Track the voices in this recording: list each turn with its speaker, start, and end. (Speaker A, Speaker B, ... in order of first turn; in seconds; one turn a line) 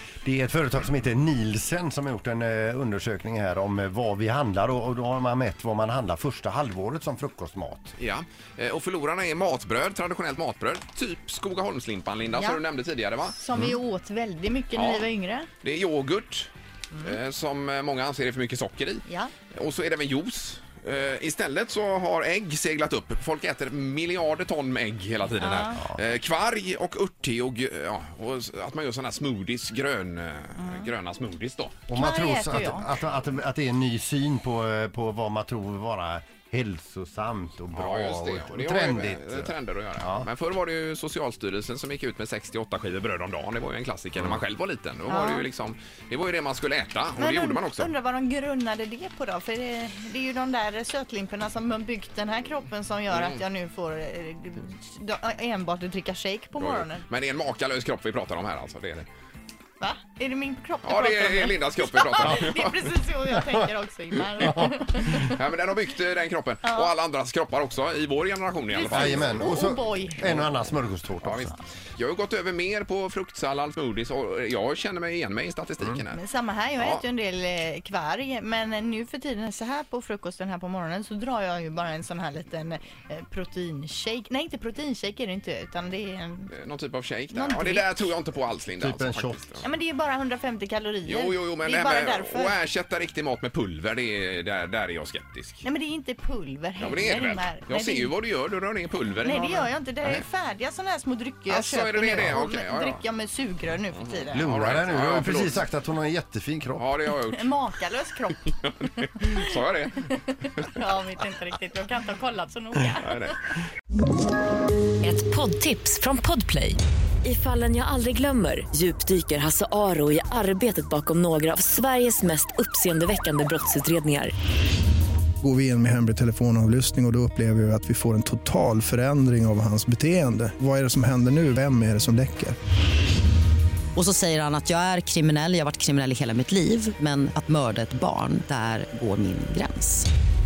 Speaker A: 0.2-8.0
Speaker B: 8.0-13.7
Speaker C: 12.3-12.6
Speaker C: 13.4-15.5
Speaker B: 14.7-31.8
Speaker C: 19.1-19.3
Speaker C: 25.4-25.8
Speaker C: 30.6-30.9
Speaker A: 31.9-40.3
Speaker C: 32.0-32.8
Speaker B: 37.7-47.9
Speaker C: 45.1-45.4
Speaker C: 47.2-57.0
Speaker B: 53.1-53.4
Speaker B: 56.6-59.1
Speaker C: 59.8-65.2
Speaker B: 60.8-63.0
Speaker A: 64.3-64.7
Speaker B: 64.4-69.7
Speaker A: 68.9-71.5
Speaker C: 69.5-70.2
Speaker B: 70.2-70.5
Speaker B: 71.2-76.2
Speaker C: 76.1-86.5
Speaker B: 76.8-77.0
Speaker B: 86.5-89.7
Speaker C: 87.3-88.1
Speaker A: 88.8-89.6
Speaker C: 89.6-92.5
Speaker B: 91.0-95.6
Speaker C: 95.6-98.1
Speaker B: 96.8-100.2
Speaker C: 99.2-104.3
Speaker B: 101.5-103.0
Speaker B: 103.9-105.6
Speaker A: 104.3-106.8
Speaker B: 106.8-107.5
Speaker C: 107.3-108.3
Speaker B: 108.6-110.8
Speaker C: 110.8-113.0
Speaker B: 112.8-113.4
Speaker D: 115.0-124.3
Speaker E: 125.4-132.6
Speaker F: 133.9-140.1